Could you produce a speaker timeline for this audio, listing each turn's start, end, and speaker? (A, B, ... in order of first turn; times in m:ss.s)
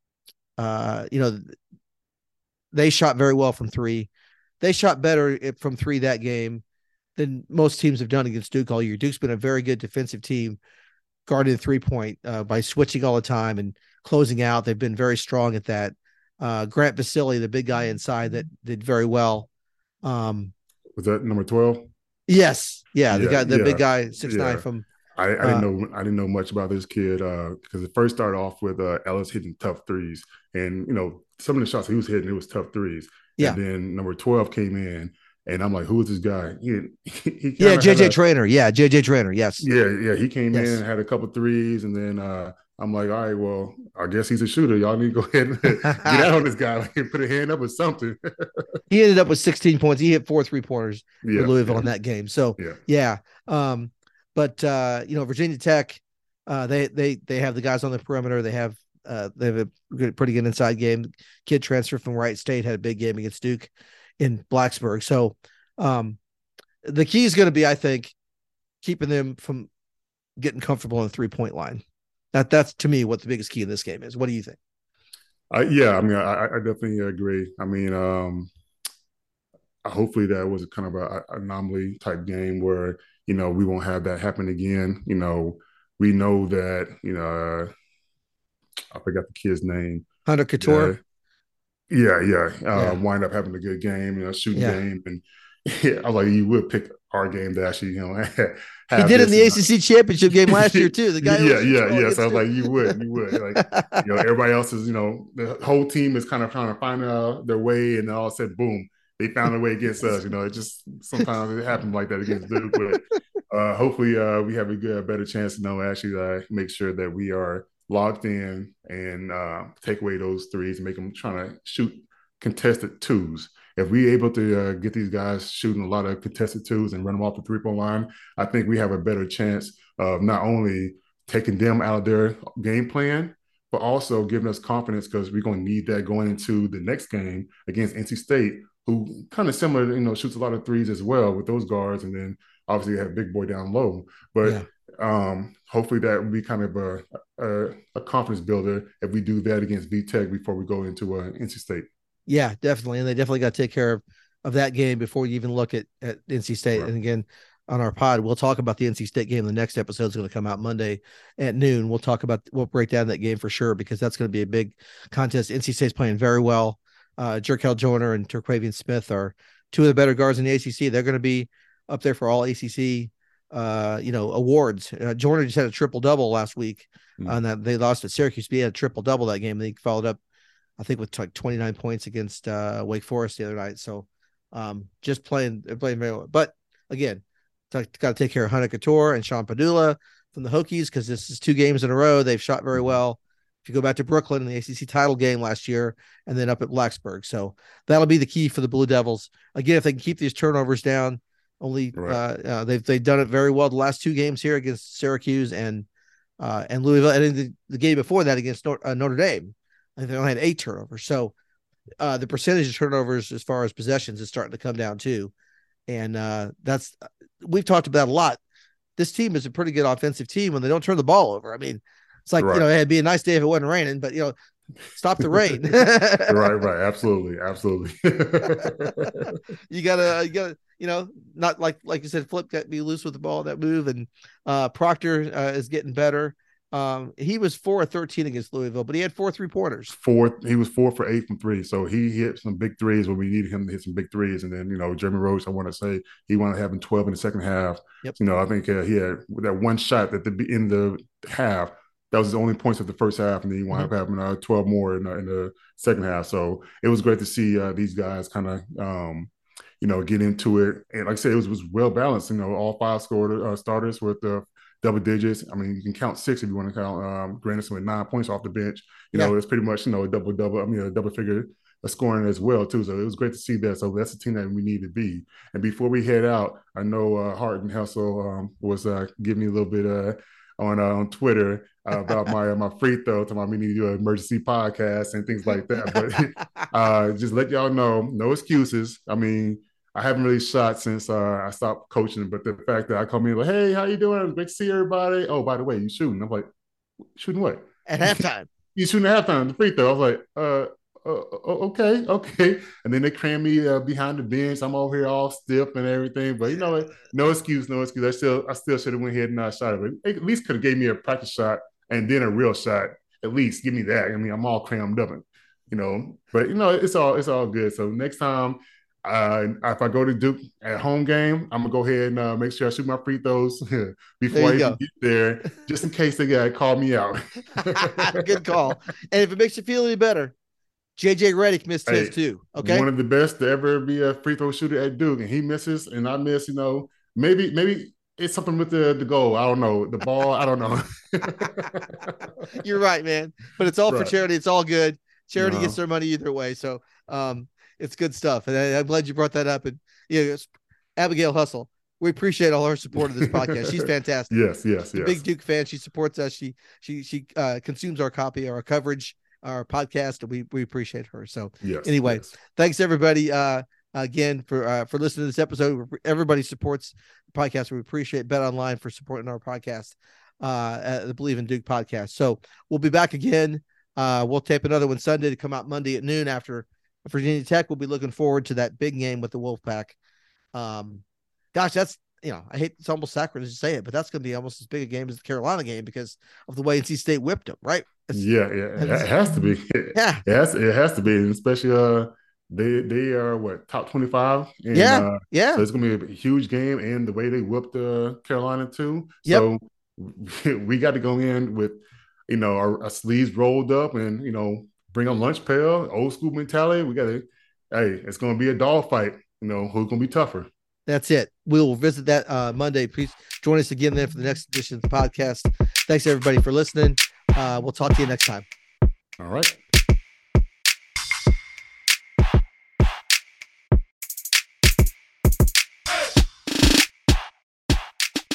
0:00.6-0:01.6 A
0:02.7-0:04.1 A
0:04.6-0:06.6 A
0:07.2-0:10.6 A
0:11.3-0:19.5 A
0:20.0-0:20.5 A
0:21.0-0:21.9 B
0:22.3-0:24.9 A
0:23.1-0:38.2 B
0:25.4-0:25.7 A
0:37.6-0:39.6 A
0:39.6-0:48.6 B
0:40.5-0:40.8 A
0:45.8-0:46.3 A
0:48.9-1:06.2 A
0:51.2-0:51.9 B
1:06.8-1:08.1 A
1:08.8-1:09.7 A
1:10.4-1:11.8 A
1:12.3-1:14.6 A
1:15.5-1:18.5 B
1:19.8-1:27.7 B
1:28.9-1:30.1 B
1:30.3-1:30.9 A
1:30.6-1:31.0 B
1:31.9-1:39.6 B
1:32.7-1:33.0 A
1:34.5-1:34.8 A
1:39.0-1:43.0 A
1:40.4-2:31.9 B
1:43.5-1:44.0 A
2:32.3-3:00.2 A
3:00.8-3:25.9 A
3:22.0-3:22.2 B
3:26.4-3:31.3 A
3:32.0-3:35.3 A
3:35.9-3:38.4 A
3:39.0-3:44.4 A
3:42.4-3:42.6 B
3:44.9-3:46.5 A
3:46.3-3:49.4 B
3:48.4-3:59.9 A
3:59.9-4:19.3 B
4:19.8-4:56.5 B
4:57.1-4:58.2 B
4:57.9-4:58.5 A
4:58.8-5:28.7 B
5:24.3-5:24.8 A
5:27.6-5:30.3 A
5:31.0-5:32.9 A
5:31.9-5:42.3 B
5:42.5-5:54.3 A
5:43.9-5:44.1 B
5:45.4-5:45.8 B
5:53.2-5:55.2 B
5:54.9-6:20.0 A
6:01.6-6:02.3 B
6:20.6-6:28.2 A
6:28.1-6:50.5 B
6:28.8-6:29.1 A
6:29.9-6:30.2 A
6:34.7-6:35.6 A
6:50.9-6:58.4 A
6:59.2-6:59.6 B